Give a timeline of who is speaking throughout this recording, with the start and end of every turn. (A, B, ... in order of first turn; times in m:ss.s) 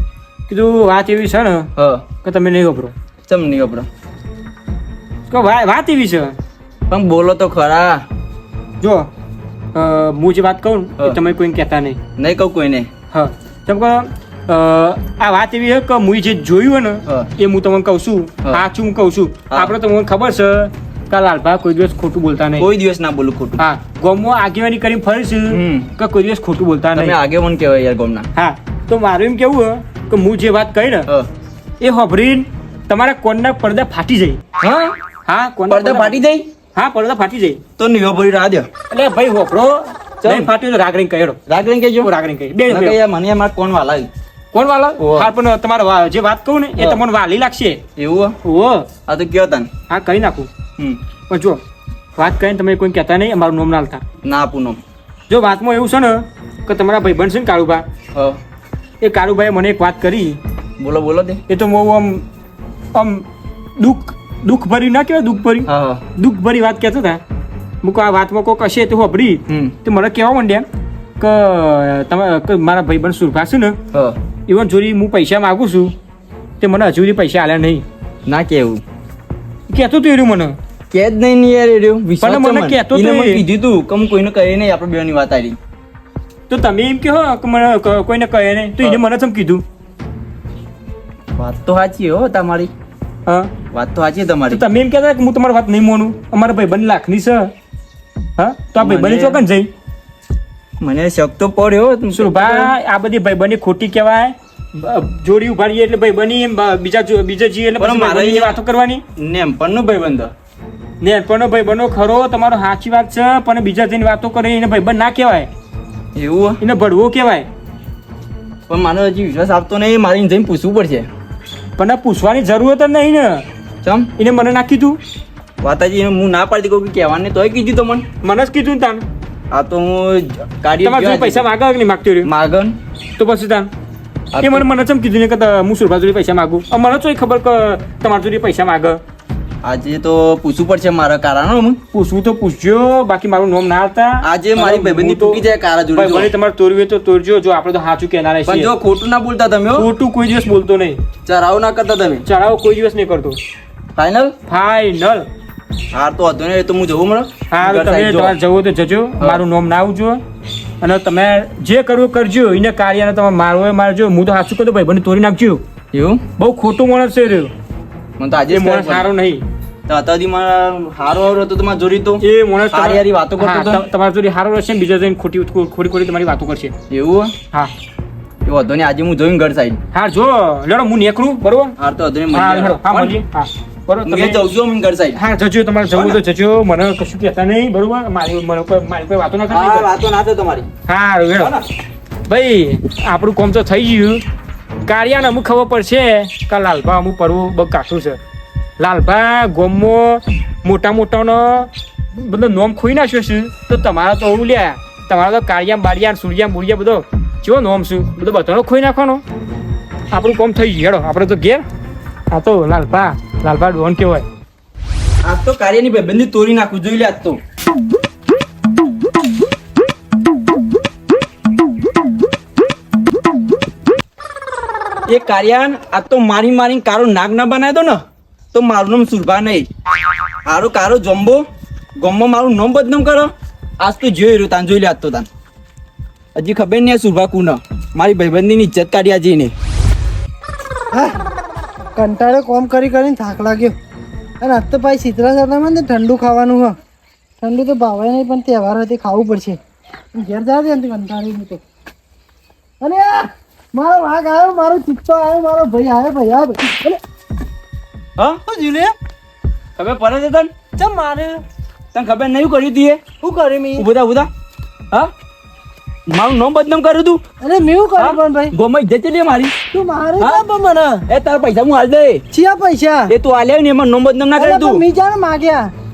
0:00.5-0:01.7 A
0:01.8-0:02.1 B
0:02.2-0:02.9 A
0:03.3-0:03.9 B
0:05.3-0:06.3 A
0:06.9-0:08.0 B
0:08.8-0:09.1 A
0:09.7-0:12.0 A
0:12.2-0:12.9 B
0:13.1-0:22.7 A
0:22.6-0:23.6 B
0:23.6-0:27.2 A
0:25.5-0:25.9 B
0:26.9-0:28.3 B
0:28.4-0:31.1 A
0:31.8-0:34.4 A
0:34.6-0:35.0 B
0:35.3-0:36.2 A
0:35.7-0:36.5 B
0:36.7-0:37.6 A
0:37.8-0:38.7 B
0:38.9-0:41.4 A
0:40.2-0:40.5 B
0:41.5-0:42.1 B
0:42.0-0:43.0 A
0:42.7-0:44.1 B
0:44.5-0:47.8 A
0:45.0-0:45.3 B
0:48.0-0:48.4 B
0:48.4-0:48.9 A
0:49.1-0:49.7 B
0:49.9-0:50.5 A
0:51.3-0:51.6 A
0:52.2-0:54.0 A
0:54.2-0:54.8 B
0:55.3-0:57.8 A
0:58.1-0:58.4 B
0:59.0-1:00.4 A
1:00.8-1:01.4 B
1:01.5-1:02.2 A
1:02.9-1:03.2 A
1:03.8-1:07.2 A
1:05.7-1:06.0 B
1:07.8-1:10.6 A
1:09.5-1:09.7 B
1:11.2-1:13.8 A
1:13.9-1:14.2 B
1:14.5-1:15.9 A
1:16.6-1:17.8 A
1:18.2-1:18.8 B
1:19.7-1:20.6 A
1:20.9-1:25.6 B
1:22.2-1:23.4 A
1:26.5-1:29.6 A
1:31.3-1:32.7 B
1:33.7-1:34.6 B
1:34.5-1:37.5 A
1:38.4-1:39.7 A
1:38.8-1:39.4 B
1:40.8-1:42.7 B
1:42.1-1:49.0 A
1:47.8-1:48.6 B
1:49.2-1:50.3 B
1:51.0-1:55.5 A
1:56.1-1:56.6 B
1:56.6-1:57.5 A
1:58.7-2:01.1 B
2:01.8-2:03.4 A
2:03.8-2:04.1 B
2:04.2-2:05.0 A
2:05.6-2:08.0 B
2:08.2-2:09.0 A
2:09.5-2:11.5 B
2:10.8-2:12.3 A
2:12.2-2:12.7 B
2:13.2-2:13.7 A
2:14.3-2:14.6 B
2:14.4-2:19.0 A
2:19.6-2:21.8 B
2:21.9-2:25.4 A
2:24.2-2:26.3 B
2:25.9-2:28.7 A
2:28.4-2:29.9 B
2:29.8-2:31.0 A
2:31.2-2:32.2 B
2:32.2-2:33.4 A
2:34.0-2:34.4 B
2:34.5-2:35.3 A
2:35.9-2:38.3 B
2:37.5-2:40.2 A
2:40.8-2:45.6 A
2:45.9-2:46.2 B
2:46.4-2:47.5 A
2:48.2-2:49.1 B
2:48.5-2:49.4 A
2:49.9-2:53.8 B
2:52.2-2:56.7 A
2:56.9-2:57.4 B
2:58.4-2:59.8 B
2:59.9-3:01.7 A
3:01.8-3:03.2 B
3:02.3-3:04.4 A
3:04.0-3:05.2 B
3:05.2-3:09.9 A
3:05.9-3:06.2 B
3:09.5-3:10.7 B
3:10.9-3:11.5 A
3:11.4-3:11.6 B
3:12.3-3:14.2 A
3:14.8-3:18.2 A
3:18.8-3:29.2 A
3:30.1-3:31.6 A
3:32.3-3:34.2 A
3:35.2-3:37.4 B
3:45.1-3:48.0 B
3:48.5-3:49.7 B
3:50.4-3:51.4 B
3:52.0-3:55.3 B
3:56.3-3:59.5 B
4:00.9-4:01.2 C
4:02.0-4:03.7 C
4:04.4-4:06.8 C
4:07.4-4:09.6 C
4:10.1-4:11.6 C
4:12.8-4:17.0 C
4:18.5-4:18.9 C
4:19.8-4:20.5 B
4:20.8-4:21.4 C
4:21.9-4:23.0 B
4:23.2-4:23.8 C
4:23.8-4:24.3 B
4:26.1-4:27.2 B
4:27.4-4:28.5 C
4:28.0-4:29.5 B
4:29.7-4:31.0 C
4:31.1-4:32.2 B
4:32.3-4:33.1 C
4:33.1-4:34.8 B
4:34.4-4:35.7 C